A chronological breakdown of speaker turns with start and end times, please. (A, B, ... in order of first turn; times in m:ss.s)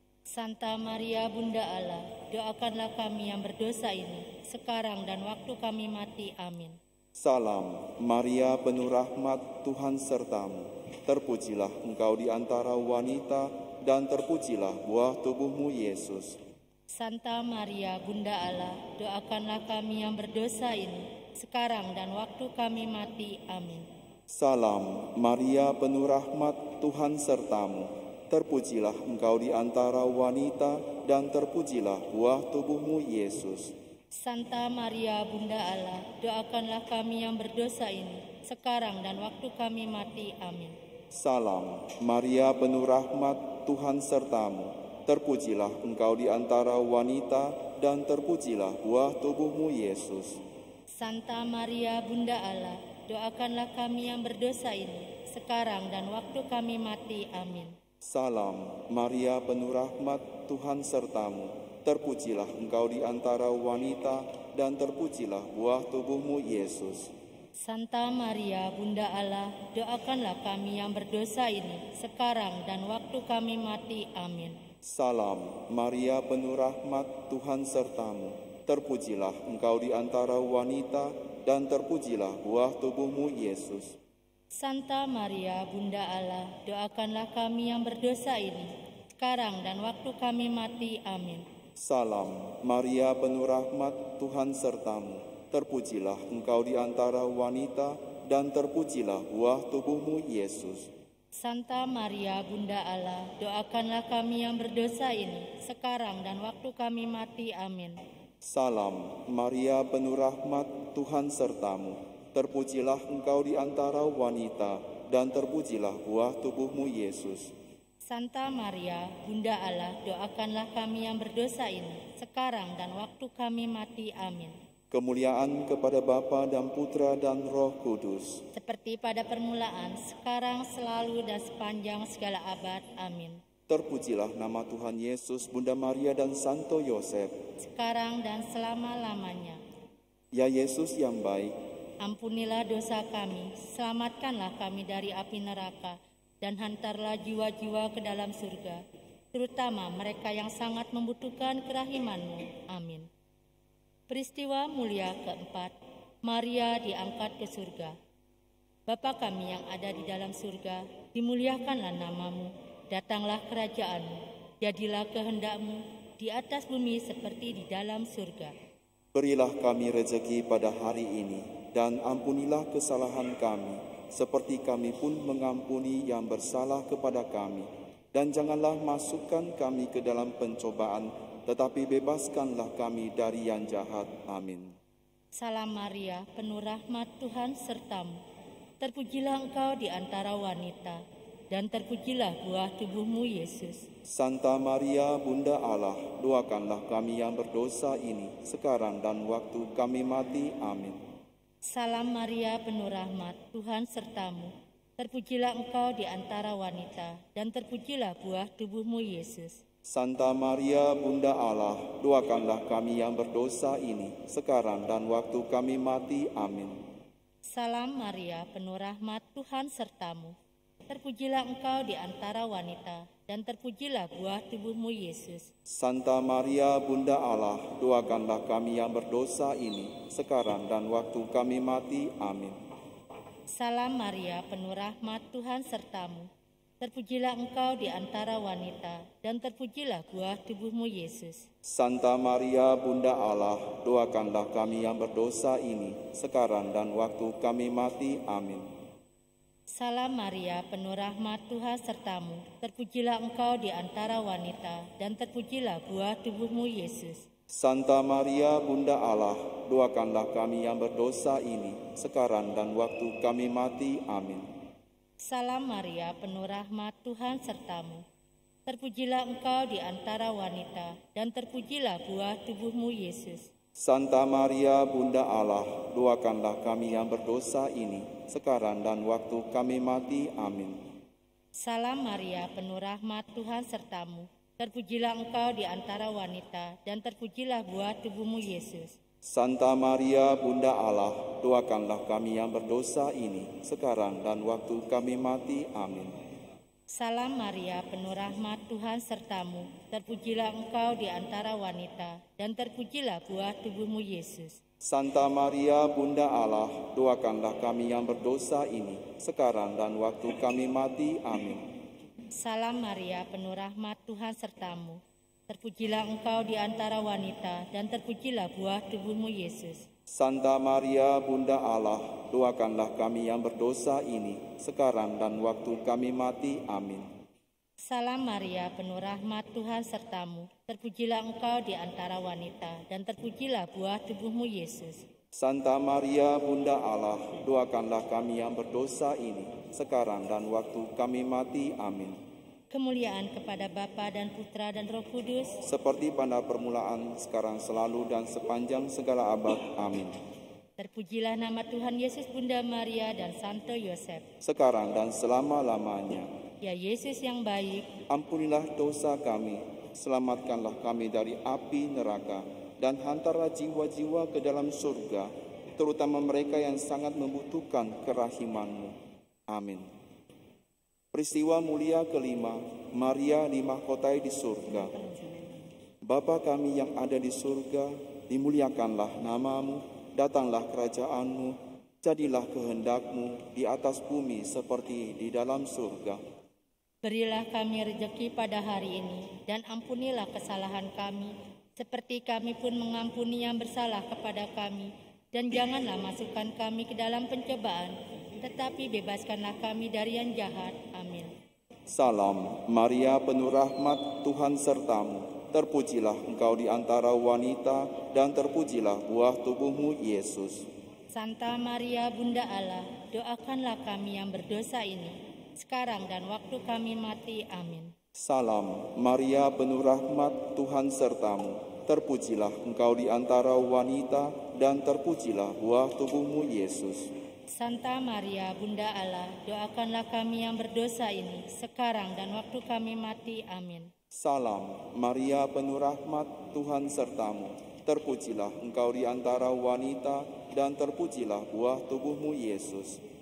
0:00.3-0:06.8 A
0:07.2-0:16.4 B
0:16.9-0:23.8 A
0:24.3-0:33.7 B
0:34.2-0:40.8 A
0:41.1-0:50.4 B
0:51.0-0:57.7 A
0:58.0-1:07.1 B
1:07.6-1:14.6 A
1:14.8-1:24.0 B
1:24.6-1:31.4 A
1:31.8-1:40.9 B
1:41.4-1:48.0 A
1:48.4-1:57.5 B
1:58.1-2:04.6 A
2:04.9-2:08.4 B
2:08.5-2:13.4 A
2:13.7-2:17.3 B
2:17.6-2:19.6 A
2:20.3-2:21.5 B
2:22.0-2:28.8 A
2:29.3-2:33.1 A
2:34.1-2:35.7 A
2:36.2-2:38.0 A
2:38.9-2:48.5 A
2:49.1-3:04.8 B
3:05.4-3:08.2 A
3:08.8-3:13.8 A
3:14.1-3:21.0 B
3:21.7-3:29.6 A
3:29.9-3:36.8 B
3:37.5-3:40.3 A
3:40.9-3:45.5 A
3:45.7-3:52.6 B
3:53.6-3:56.3 A
3:56.8-4:01.4 A
4:01.6-4:08.7 B
4:09.7-4:17.2 A
4:17.5-4:24.5 B
4:25.2-4:28.0 A
4:28.6-4:33.5 A
4:33.8-4:40.9 B
4:41.6-4:49.0 A
4:49.2-4:56.2 B
4:56.9-5:04.6 A
5:04.8-5:11.6 B
5:12.4-5:19.8 A
5:20.1-5:27.1 B
5:27.8-5:35.0 A
5:35.3-5:42.2 B
5:42.7-5:45.6 A
5:45.6-5:50.2 B
5:50.8-5:54.3 A
5:54.4-5:56.3 B
5:56.6-5:57.9 A
5:58.1-6:09.0 B
6:09.5-6:09.9 B
6:11.1-6:15.0 B
6:16.0-6:26.2 B
6:27.0-6:41.3 A
6:41.9-6:50.7 B
6:51.1-6:57.9 A
6:58.2-7:07.1 B
7:07.5-7:13.9 A
7:14.1-7:23.0 B